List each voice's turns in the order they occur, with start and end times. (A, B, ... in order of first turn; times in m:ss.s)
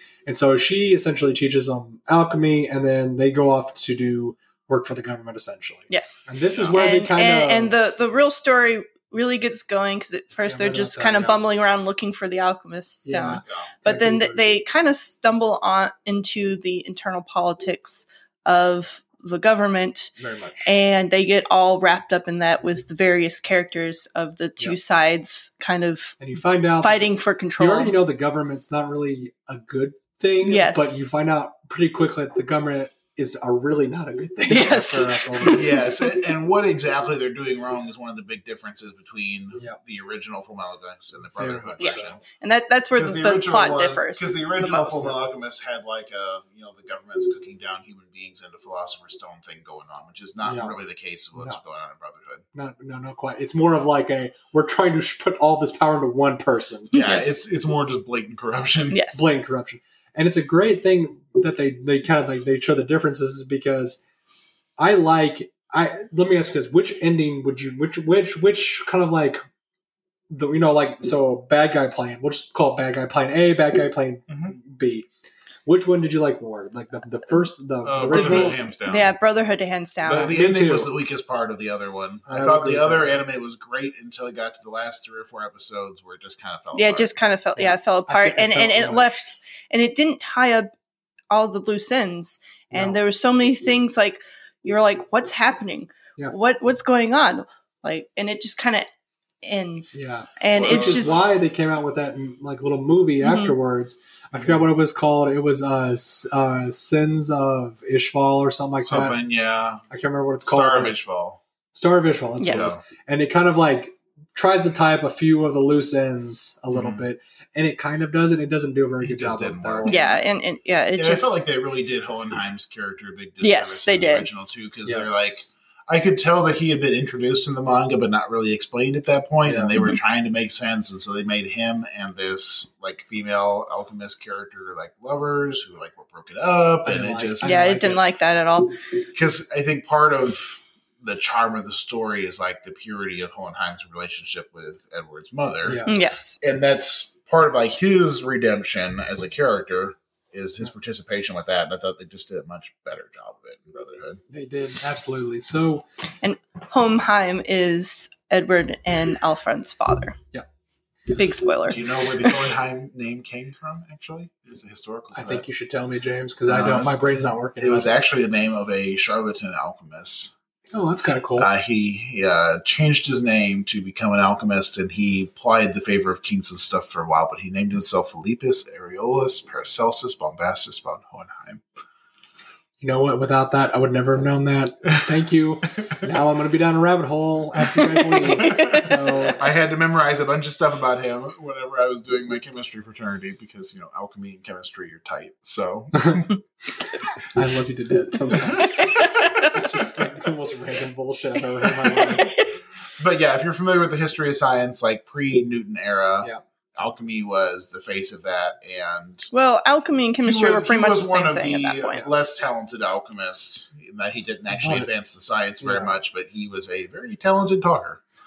0:00.2-0:07.7 A
0:05.9-0:20.1 B
0:06.5-0:06.8 C
0:10.4-0:11.4 A
0:13.0-0:14.5 A
0:13.4-0:13.7 C
0:20.2-0:20.7 A
0:20.6-0:26.2 B
0:26.2-0:35.8 A
0:26.8-0:28.0 B
0:30.4-0:31.1 B
0:34.5-0:36.0 B
0:35.4-0:42.2 C
0:41.4-0:42.2 A
0:41.8-0:45.2 B
0:42.9-0:52.4 C
0:50.4-0:50.8 A
0:52.5-0:57.0 A
0:56.9-0:57.4 B
0:56.9-0:59.0 C
0:58.9-0:59.3 B
0:59.1-1:04.0 A
1:04.8-1:09.4 A
1:10.3-1:15.1 A
1:14.3-1:14.5 C
1:15.6-1:18.6 A
1:17.8-1:19.1 C
1:18.1-1:20.3 B
1:20.0-1:27.1 C
1:20.1-1:20.9 A
1:22.2-1:23.2 A
1:26.7-1:30.7 B
1:27.6-1:29.2 A
1:31.3-1:38.9 B
1:39.4-1:41.3 B
1:39.9-1:49.2 A
1:40.5-1:41.2 C
1:43.2-1:43.5 B
1:48.8-1:49.8 C
1:49.9-1:51.0 A
1:50.5-1:51.4 C
1:51.7-2:00.0 A
1:52.4-1:52.7 B
1:52.5-1:52.8 C
1:56.7-1:57.0 C
1:59.0-2:00.1 C
1:59.8-2:01.4 B
2:01.0-2:17.7 C
2:03.4-2:04.3 B
2:04.8-2:05.4 A
2:09.4-2:09.7 A
2:16.8-2:18.0 A
2:17.4-2:18.9 B
2:19.1-2:34.2 C
2:25.6-2:26.1 A
2:25.8-2:26.4 B
2:34.3-2:35.8 A
2:36.2-2:40.2 B
2:41.1-2:41.8 B
2:41.7-2:45.4 C
2:45.1-2:47.9 A
2:46.5-2:50.3 C
2:50.7-2:51.5 A
2:51.4-3:01.6 C
3:02.8-3:09.4 A
3:08.1-3:08.9 B
3:08.5-3:08.8 C
3:09.4-3:16.3 C
3:15.9-3:16.2 A
3:17.3-3:22.4 A
3:18.3-3:18.8 C
3:18.6-3:19.5 B
3:21.8-3:22.5 B
3:23.0-3:29.3 C
3:29.3-3:32.0 B
3:30.2-3:38.0 C
3:34.5-3:34.9 A
3:35.6-3:35.9 A